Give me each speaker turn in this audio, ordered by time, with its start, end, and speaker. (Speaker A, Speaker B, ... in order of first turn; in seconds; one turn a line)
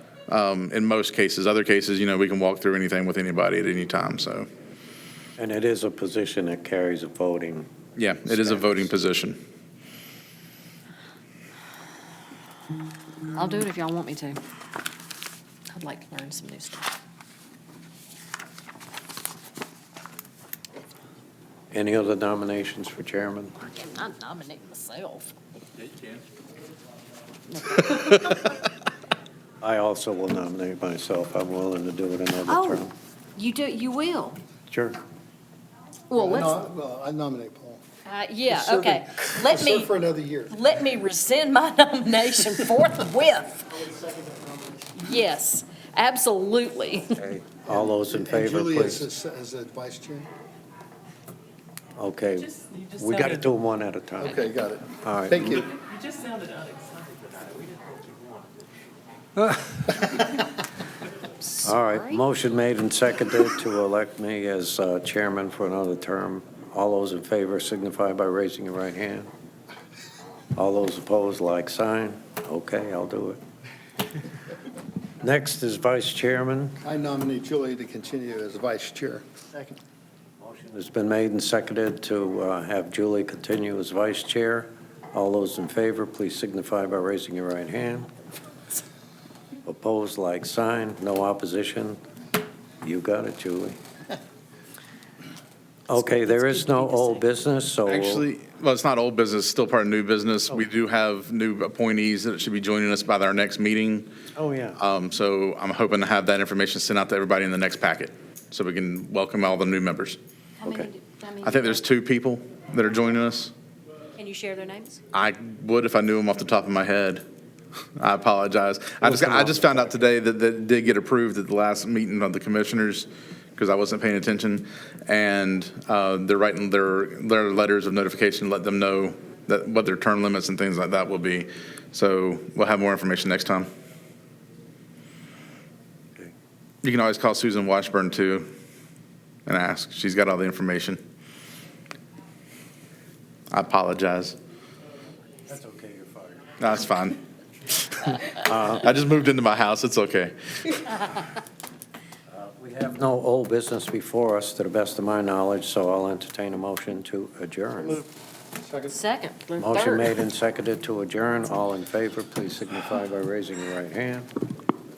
Speaker A: 0.3-4.5
Speaker B: 5.4-7.7
Speaker A: 8.0-9.4
Speaker B: 8.2-8.9
Speaker C: 13.3-14.4
Speaker C: 15.7-16.9
Speaker B: 21.7-23.6
Speaker C: 23.6-25.3
Speaker C: 27.6-28.4
Speaker B: 29.6-32.9
Speaker C: 32.5-32.8
Speaker C: 33.4-34.4
Speaker B: 34.7-35.0
Speaker C: 36.1-36.6
Speaker D: 36.1-37.8
Speaker C: 38.0-40.0
Speaker D: 38.5-40.6
Speaker C: 40.5-43.8
Speaker D: 43.8-44.9
Speaker C: 45.0-47.1
Speaker B: 47.1-49.0
Speaker D: 47.7-50.3
Speaker B: 52.0-54.5
Speaker D: 54.2-55.8
Speaker B: 55.0-55.7
Speaker E: 55.8-58.5
Speaker C: 61.4-62.2
Speaker B: 61.6-69.3
Speaker B: 70.5-73.4
Speaker B: 75.2-76.8
Speaker D: 76.8-79.8
Speaker B: 80.4-88.1
Speaker B: 89.6-92.0
Speaker B: 92.8-93.8
Speaker B: 95.9-98.2
Speaker C: 95.9-97.2
Speaker A: 97.8-104.1
Speaker B: 104.3-104.8
Speaker A: 104.8-110.2
Speaker C: 110.6-111.8
Speaker B: 110.6-110.9
Speaker A: 111.4-113.5
Speaker C: 114.2-115.0
Speaker A: 115.1-117.2
Speaker A: 118.0-133.7
Speaker B: 119.0-120.0
Speaker A: 136.8-138.5
Speaker A: 139.4-141.0
Speaker A: 143.5-144.3
Speaker B: 145.4-146.6
Speaker A: 146.6-147.2
Speaker A: 147.9-151.1
Speaker B: 148.3-148.9
Speaker B: 152.3-158.1
Speaker D: 158.5-159.0
Speaker C: 158.9-160.2
Speaker B: 159.6-164.3